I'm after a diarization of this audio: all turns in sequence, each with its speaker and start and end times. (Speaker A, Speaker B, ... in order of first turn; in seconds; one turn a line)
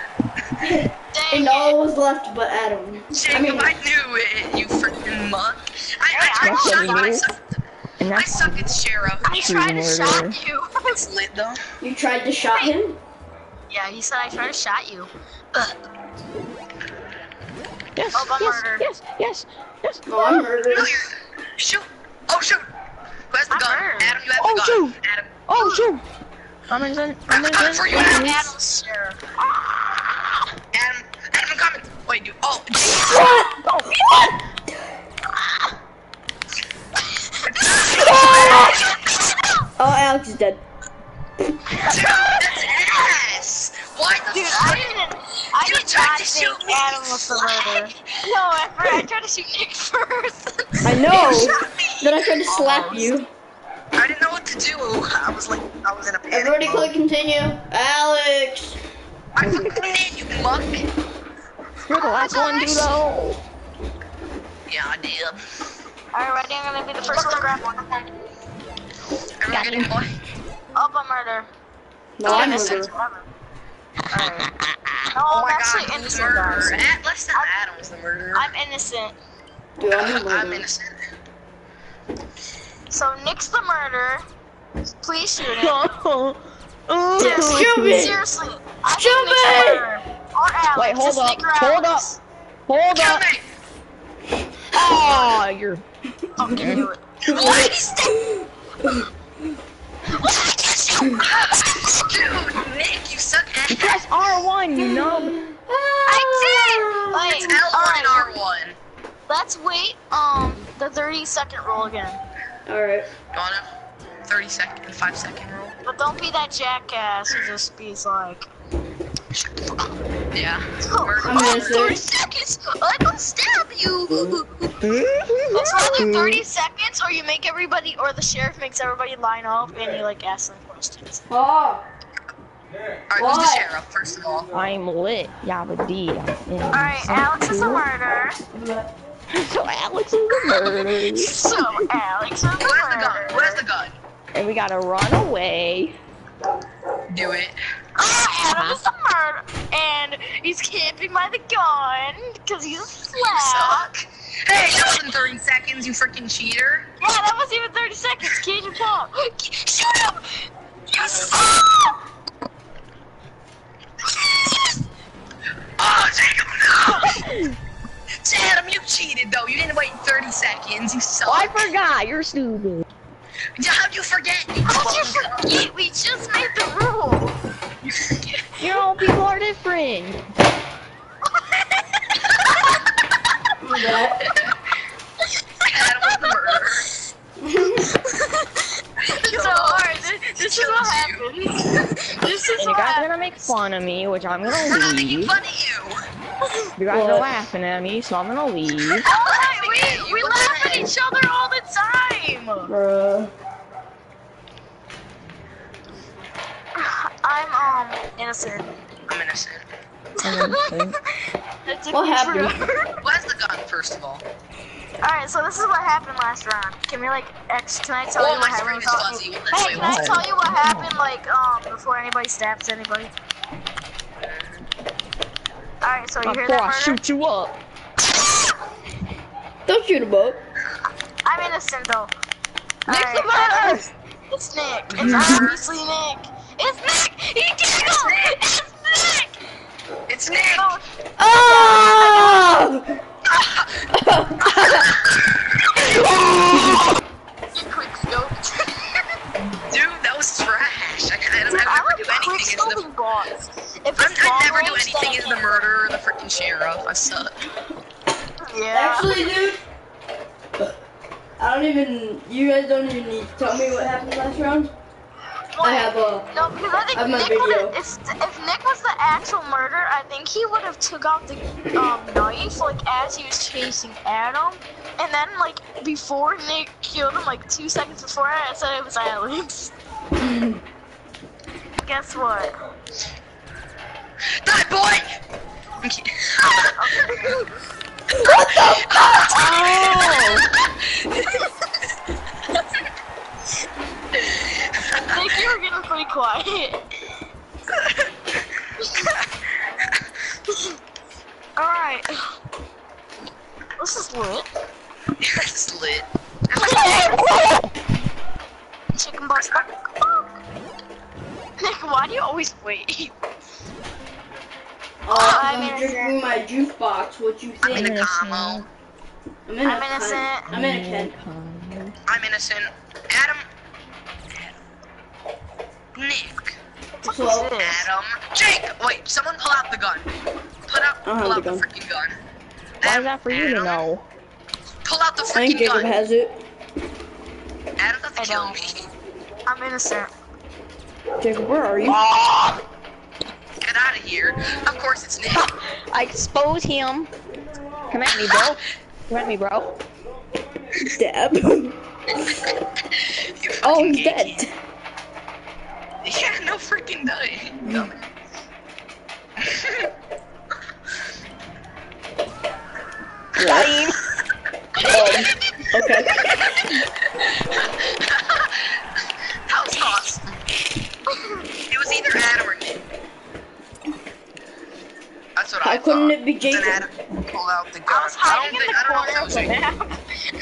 Speaker A: 0.6-3.7
Speaker B: 1.1-1.8
Speaker C: 3.1-9.5
Speaker B: 6.1-7.3
Speaker D: 6.4-7.3
Speaker D: 8.0-8.7
Speaker B: 9.2-11.0
Speaker D: 9.3-10.4
Speaker C: 10.9-11.6
Speaker A: 11.8-13.0
Speaker B: 13.7-15.7
Speaker D: 17.9-20.5
Speaker B: 18.1-18.9
Speaker A: 20.1-21.1
Speaker C: 20.7-22.7
Speaker C: 23.3-25.8
Speaker B: 23.5-24.2
Speaker D: 24.4-24.9
Speaker D: 25.5-26.0
Speaker D: 26.7-28.6
Speaker C: 27.3-28.3
Speaker B: 27.9-29.2
Speaker C: 30.7-33.4
Speaker A: 33.0-33.6
Speaker D: 33.1-34.3
Speaker B: 37.2-39.5
Speaker C: 37.5-39.0
Speaker A: 38.0-38.8
Speaker A: 39.8-40.6
Speaker B: 41.8-42.4
Speaker C: 41.8-45.0
Speaker B: 44.2-51.4
Speaker C: 45.6-47.9
Speaker A: 50.8-53.3
Speaker C: 51.1-53.2
Speaker C: 54.0-56.9
Speaker A: 56.3-58.8
Speaker C: 59.4-60.9
Speaker A: 59.4-59.9
Speaker D: 59.7-59.9
Speaker D: 61.9-63.4
Speaker C: 62.1-62.9
Speaker C: 64.7-65.4
Speaker B: 66.1-67.8
Speaker C: 67.1-68.1
Speaker C: 69.4-70.2
Speaker D: 69.5-69.9
Speaker B: 70.8-71.5
Speaker A: 72.2-72.9
Speaker B: 72.2-73.3
Speaker D: 72.3-72.6
Speaker C: 72.5-72.8
Speaker B: 74.1-74.5
Speaker D: 74.2-75.0
Speaker B: 75.1-77.5
Speaker C: 75.3-78.5
Speaker B: 78.3-79.2
Speaker A: 79.8-80.7
Speaker C: 79.9-81.0
Speaker B: 82.9-84.2
Speaker B: 85.0-86.0
Speaker D: 85.5-88.1
Speaker B: 87.2-92.2
Speaker A: 87.2-88.2
Speaker A: 88.9-89.9
Speaker D: 90.8-92.1
Speaker D: 92.7-93.3
Speaker C: 92.9-93.5
Speaker D: 94.7-95.8
Speaker C: 95.0-95.3
Speaker B: 96.4-97.7
Speaker D: 96.5-96.8
Speaker A: 96.5-99.0
Speaker C: 97.2-98.2
Speaker B: 100.1-101.9
Speaker C: 101.2-104.1
Speaker D: 103.7-105.6
Speaker A: 104.8-107.6
Speaker B: 106.1-108.3
Speaker D: 106.5-107.0
Speaker C: 107.3-108.8
Speaker B: 109.3-112.2
Speaker A: 112.7-113.1
Speaker C: 113.3-113.7
Speaker C: 114.3-115.7
Speaker B: 115.8-118.5
Speaker C: 119.3-122.0
Speaker B: 120.9-124.8
Speaker A: 121.2-122.0
Speaker D: 124.8-126.4
Speaker B: 125.5-131.2
Speaker A: 131.3-131.8
Speaker C: 133.1-134.5
Speaker A: 133.2-133.7
Speaker D: 134.5-137.8
Speaker B: 136.7-138.4
Speaker A: 138.5-138.9
Speaker D: 139.3-141.8
Speaker B: 140.6-143.6
Speaker C: 142.6-144.0
Speaker D: 144.3-146.0
Speaker C: 147.1-147.6
Speaker B: 148.0-153.9
Speaker D: 148.4-148.8
Speaker C: 153.1-156.9
Speaker B: 157.0-160.2
Speaker B: 160.9-162.0
Speaker C: 165.8-167.4
Speaker C: 168.2-171.7
Speaker D: 171.3-172.9
Speaker C: 173.6-175.4
Speaker B: 174.7-177.3
Speaker C: 177.8-178.6
Speaker D: 178.6-180.2
Speaker B: 181.3-182.6
Speaker A: 183.6-184.2
Speaker B: 185.7-186.6
Speaker C: 185.7-186.9
Speaker A: 187.4-187.9
Speaker B: 187.8-193.5
Speaker C: 189.2-191.3
Speaker D: 192.6-195.4
Speaker C: 194.7-196.0
Speaker D: 196.8-199.1
Speaker A: 196.9-197.3
Speaker C: 198.9-200.9
Speaker B: 199.1-202.7
Speaker A: 202.7-203.3
Speaker B: 206.8-208.7
Speaker C: 209.1-209.7
Speaker B: 210.2-210.8
Speaker D: 210.2-211.0
Speaker B: 211.7-213.0
Speaker A: 211.9-212.6
Speaker C: 213.0-214.2
Speaker B: 215.0-223.1
Speaker C: 218.2-220.2
Speaker D: 219.6-220.9
Speaker C: 224.2-224.7
Speaker B: 225.8-227.0
Speaker D: 226.2-227.6
Speaker A: 229.7-230.4
Speaker B: 231.2-232.1
Speaker B: 232.9-239.4
Speaker D: 232.9-233.8
Speaker C: 234.9-235.6
Speaker C: 237.7-238.4
Speaker C: 240.1-240.7
Speaker B: 240.5-242.6
Speaker A: 241.2-242.8
Speaker C: 243.3-243.9
Speaker A: 243.9-244.9
Speaker C: 244.6-245.3
Speaker D: 246.0-246.3
Speaker A: 246.6-246.8
Speaker B: 247.6-249.1
Speaker C: 249.7-252.8
Speaker B: 251.5-255.6
Speaker C: 254.0-257.4
Speaker B: 258.5-259.2
Speaker A: 258.7-259.6
Speaker A: 261.4-264.7
Speaker B: 265.5-279.7
Speaker A: 265.6-266.3
Speaker A: 266.9-267.8
Speaker A: 280.2-280.6
Speaker B: 281.8-282.5
Speaker C: 284.4-285.1
Speaker C: 285.8-286.8
Speaker B: 286.8-287.5
Speaker A: 288.1-289.4
Speaker C: 288.3-291.4
Speaker D: 289.3-290.4
Speaker C: 294.3-295.2
Speaker B: 295.0-296.8
Speaker B: 298.8-299.2
Speaker B: 301.6-302.2
Speaker B: 303.8-304.5
Speaker C: 305.2-307.2
Speaker B: 306.6-307.2
Speaker D: 307.2-307.6
Speaker B: 308.9-310.4
Speaker C: 309.4-309.7
Speaker B: 311.6-313.1
Speaker A: 315.1-318.0
Speaker B: 315.1-316.2
Speaker C: 317.6-318.7
Speaker D: 317.7-318.7
Speaker A: 319.5-321.1
Speaker B: 319.6-320.5
Speaker D: 320.5-321.9
Speaker C: 322.1-323.4
Speaker C: 325.9-326.6
Speaker B: 327.0-327.9
Speaker A: 327.1-327.5
Speaker C: 327.6-330.1
Speaker C: 330.7-332.2
Speaker A: 331.0-331.6
Speaker C: 332.8-333.9
Speaker D: 332.8-334.0
Speaker C: 334.8-336.0
Speaker A: 335.3-336.4
Speaker C: 337.8-338.9
Speaker B: 338.2-338.8
Speaker B: 339.5-340.1
Speaker A: 341.2-342.0
Speaker D: 341.8-342.6
Speaker C: 343.6-345.5
Speaker D: 345.3-347.1
Speaker D: 347.9-349.7
Speaker A: 350.8-351.8
Speaker C: 352.9-354.4
Speaker A: 353.6-354.5
Speaker C: 356.0-358.1
Speaker A: 357.6-357.9
Speaker C: 359.4-359.9
Speaker A: 363.4-363.8
Speaker D: 363.4-364.0
Speaker C: 364.9-365.2
Speaker A: 364.9-366.2
Speaker C: 366.1-368.8
Speaker C: 369.5-370.3
Speaker B: 371.1-371.4
Speaker C: 371.7-372.8
Speaker C: 375.4-379.6
Speaker A: 375.6-376.9
Speaker B: 377.9-380.2